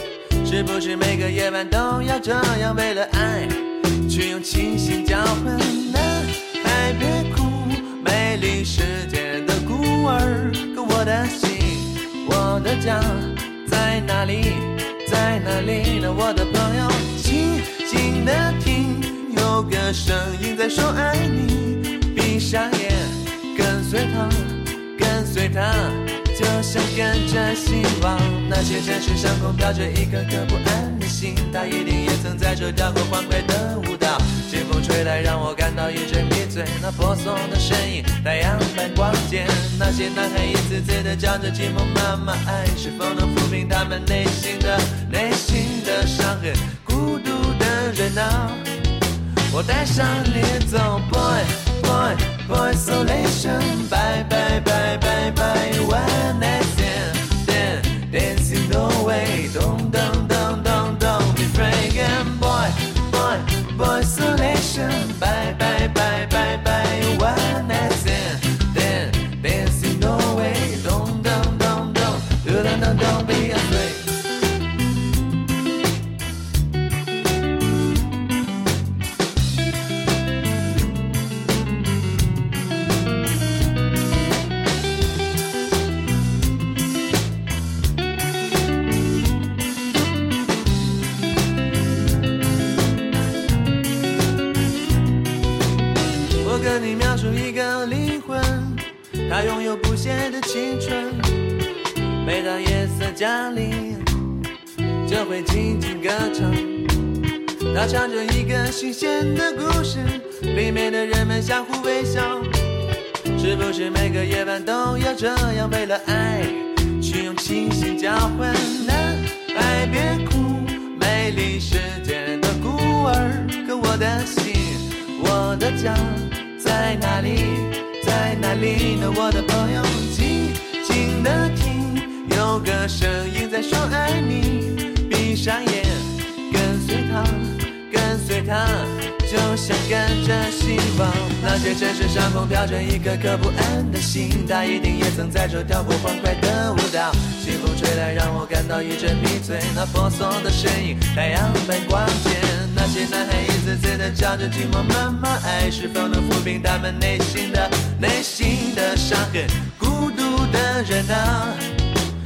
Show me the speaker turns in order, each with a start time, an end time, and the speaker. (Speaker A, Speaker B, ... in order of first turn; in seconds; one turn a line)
Speaker A: 0.4-48.7
Speaker A: 49.5-74.2
Speaker A: 96.4-101.5
Speaker A: 102.2-104.2
Speaker A: 105.0-107.0
Speaker A: 107.7-112.6
Speaker A: 113.3-161.8